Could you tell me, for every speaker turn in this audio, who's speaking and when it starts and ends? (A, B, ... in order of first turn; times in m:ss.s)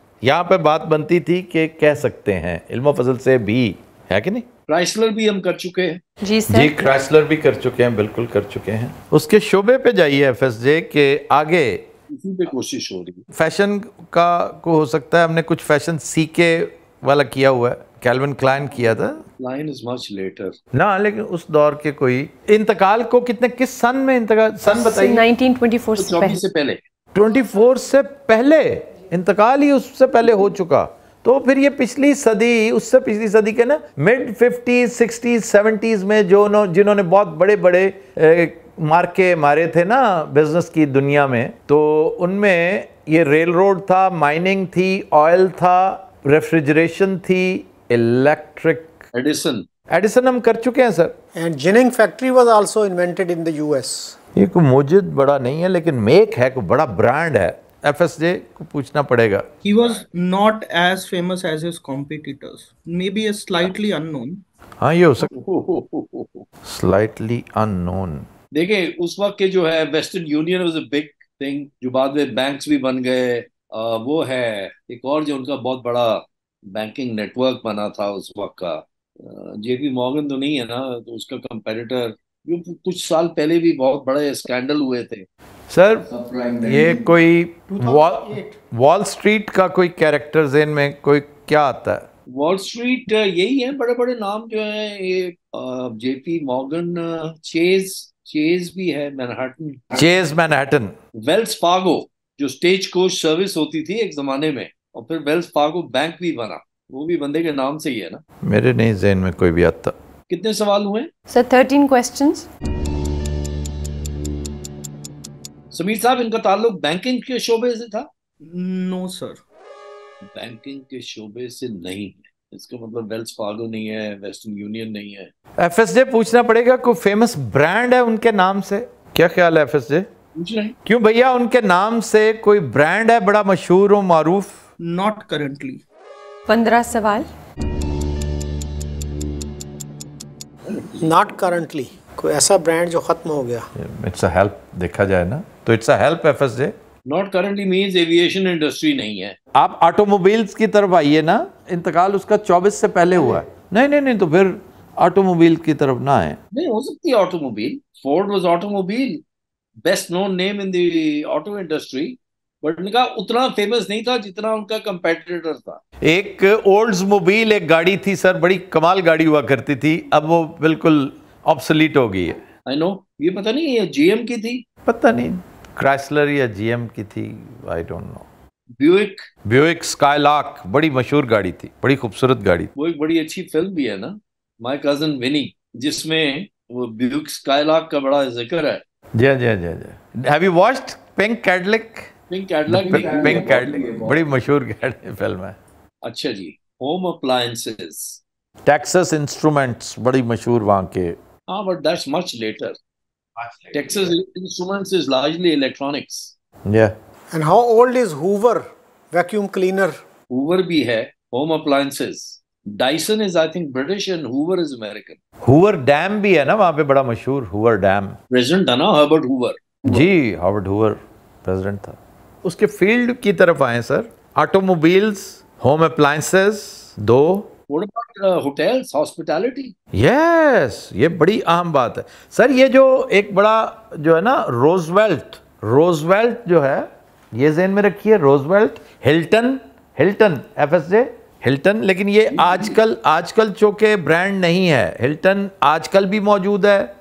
0:00.2-0:04.4 A
0:04.7-0:06.0 B
0:06.2-0:06.7 C
0:06.5-0:11.8 A
0:12.1-0:13.2 B
0:13.3-0:19.2 A
0:19.4-0:20.6 B
0:20.7-0:25.2 A
0:24.7-0:26.4 C
0:26.0-0:26.8 B
0:27.1-0:49.0 A
0:49.1-0:49.6 B
0:49.9-0:51.1 A
0:51.3-0:54.2 D
0:54.4-0:59.5 A
0:59.6-1:04.4 E
1:04.8-1:05.3 A
1:05.3-1:06.4 B
1:06.6-1:08.3 A
1:08.5-1:25.3 B
1:25.7-1:26.1 A
1:26.6-1:32.0 A
1:27.7-1:28.5 D
1:32.3-1:39.8 B
1:39.9-1:40.9 A
1:41.2-1:48.2 B
1:48.4-1:49.9 A
1:50.3-1:51.1 B
1:51.3-1:52.5 C
1:55.7-1:58.1 B
1:58.4-1:59.4 E
2:00.3-2:05.3 B
2:05.6-2:10.1 A
2:10.3-2:10.8 B
2:10.8-2:14.6 A
2:14.8-2:15.8 E
2:16.5-2:17.3 C
2:20.6-2:21.1 B
2:21.0-2:23.7 D
2:23.8-2:26.7 A
2:27.1-2:29.4 B
2:29.5-2:36.4 A
2:36.5-2:39.2 B
2:39.8-2:45.8 B
2:46.0-2:52.4 A
2:52.6-2:54.6 B
2:54.8-2:58.2 A
2:58.8-2:59.3 B
2:59.4-3:02.7 A
3:02.8-3:08.8 B
3:09.2-3:12.1 A
3:12.3-3:14.1 B
3:12.7-3:15.6 A
3:16.0-3:18.2 B
3:18.6-3:21.2 A
3:21.5-3:22.8 B
3:23.4-3:24.1 A
3:23.7-3:26.3 B
3:26.6-3:26.9 A
3:27.3-3:30.0 D
3:30.3-3:35.2 B
3:35.4-3:38.2 A
3:38.3-3:40.0 B
3:39.9-3:47.5 A
3:47.7-3:49.7 B
3:49.9-4:06.9 A
4:02.3-4:02.8 B